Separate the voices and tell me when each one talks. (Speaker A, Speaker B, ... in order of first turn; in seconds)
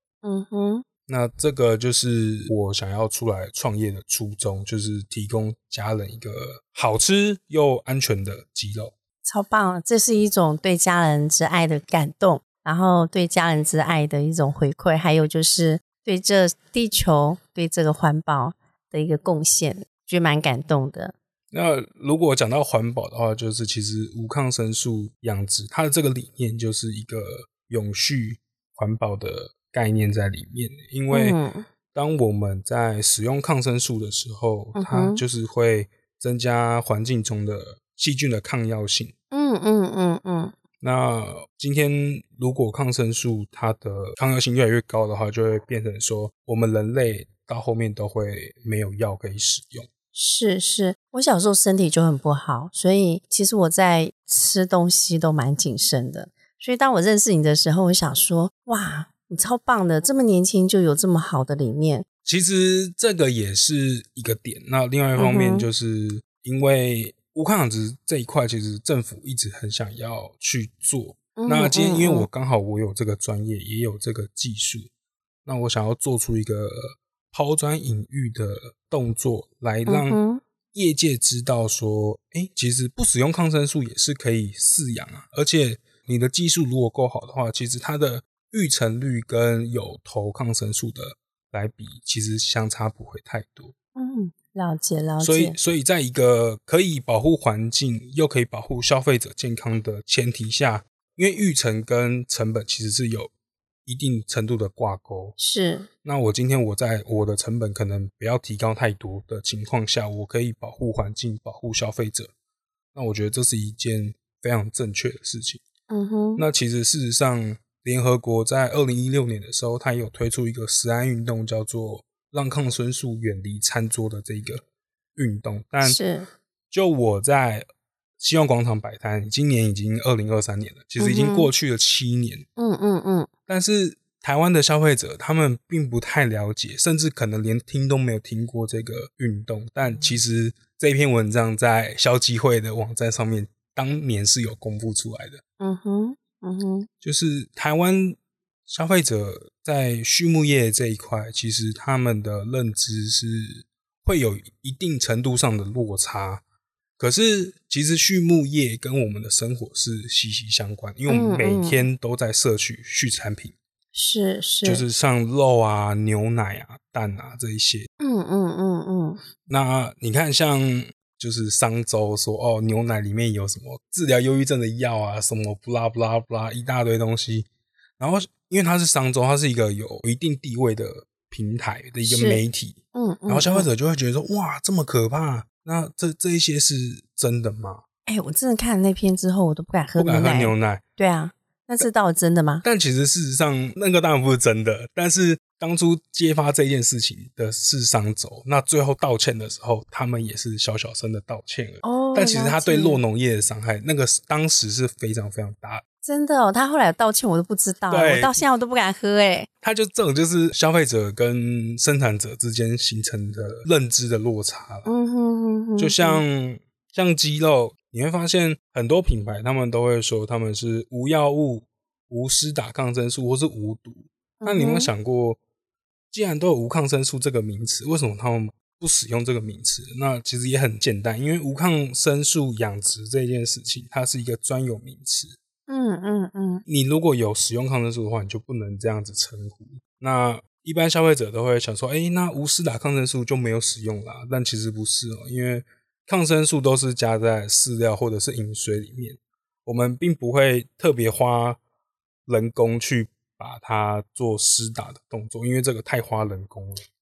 Speaker A: 0.2-0.8, 9.2-21.1, 31.1-31.6, 34.7-35.2, 39.3-40.5, 50.1-62.0, 65.2-65.7, 71.3-72.3, 79.9-80.4, 94.0-95.5, 105.4-105.9, 115.9-116.4, 125.8-126.3, 131.0-131.5, 132.6-133.3, 145.6-146.9, 161.1-161.8, 163.9-164.8, 168.0-169.2, 182.0-182.4, 182.9-183.7, 188.1-192.7, 201.8-203.0, 206.0-209.5, 214.8-216.2, 224.4-224.9, 235.7-236.6
Speaker B: 1.1-8.9, 21.5-31.4, 31.9-39.1, 40.8-49.9, 62.2-74.9, 75.4-80.2, 80.7-93.7, 95.2-103.3, 103.8-105.4, 106.0-112.3, 112.9-115.6, 116.4-124.6, 125.2-126.0, 126.7-127.7, 128.2-132.5, 133.5-145.4, 147.0-156.4, 157.0-163.5, 164.6-167.9, 169.5-177.5, 178.0-187.8, 190.0-190.8, 192.6-205.8, 207.9-208.4, 209.6-214.9, 215.8-225.4, 226.1-235.4, 236.7-251.6, 252.3-256.8